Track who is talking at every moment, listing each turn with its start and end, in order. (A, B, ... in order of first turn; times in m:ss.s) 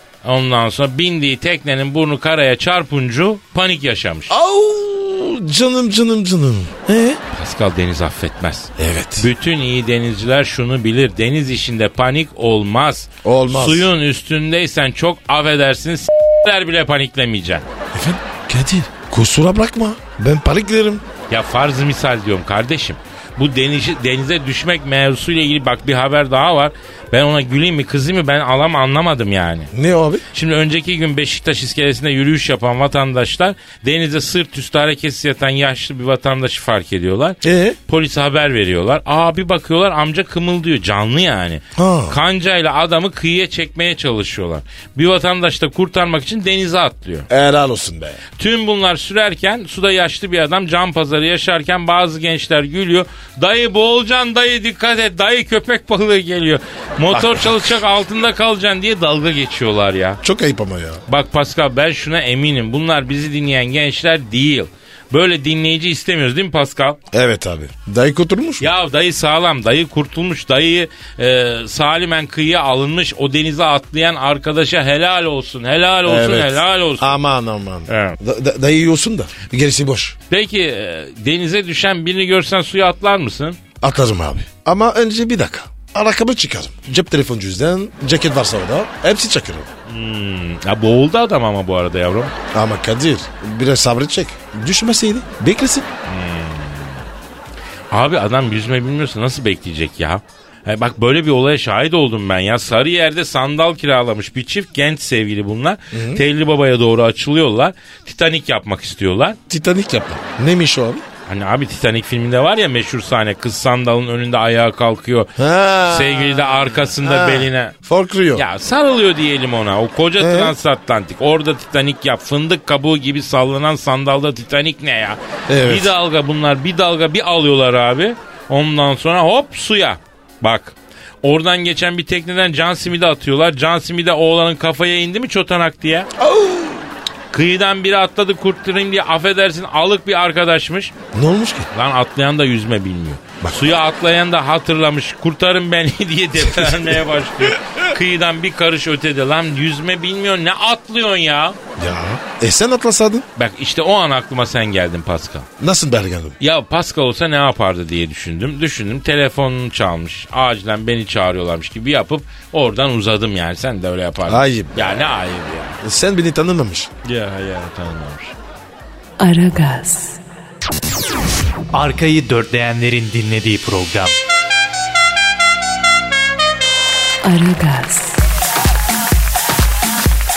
0:00.2-0:04.3 A
0:04.3-0:07.2 B
0:07.3-0:17.6 A
0:08.8-0:09.3 B
0:13.2-0:13.9 B
0:17.9-0:21.0 B
0:21.3-0:29.7 A
0:29.7-0:30.2 B
0:30.3-0:47.3 A
0:37.4-0:37.8 B
0:41.8-0:42.2 B
0:47.3-0:48.2 B
0:48.4-1:00.2 A
0:57.1-0:57.7 B
1:00.2-1:01.0 B
1:01.1-1:07.0 A
1:07.1-1:08.7 B
1:08.6-1:17.2 A
1:16.0-1:20.1 B
1:17.9-1:18.2 A
1:20.3-1:23.6 A
1:23.8-1:29.7 B
1:29.9-1:32.3 A
1:32.5-1:35.9 B
1:36.1-1:37.0 A
1:37.9-1:49.4 A
1:45.9-1:46.2 B
1:49.5-1:51.0 B
1:51.3-1:55.3 A
1:55.4-1:58.4 B
1:55.8-1:57.8 A
1:58.3-2:16.1 A
2:00.2-2:00.5 B
2:05.5-2:05.9 B
2:16.2-2:16.9 B
2:17.3-2:20.9 A
2:21.1-2:21.7 B
2:21.7-2:31.6 A
2:26.5-2:26.9 B
2:31.8-2:33.2 B
2:33.4-2:35.5 A
2:35.6-2:36.4 B
2:36.4-2:45.8 A
2:44.2-2:45.0 B
2:45.8-2:46.9 B
2:47.0-2:48.3 A
2:49.2-2:50.2 C
2:51.7-2:54.1 D
2:57.2-2:58.2 C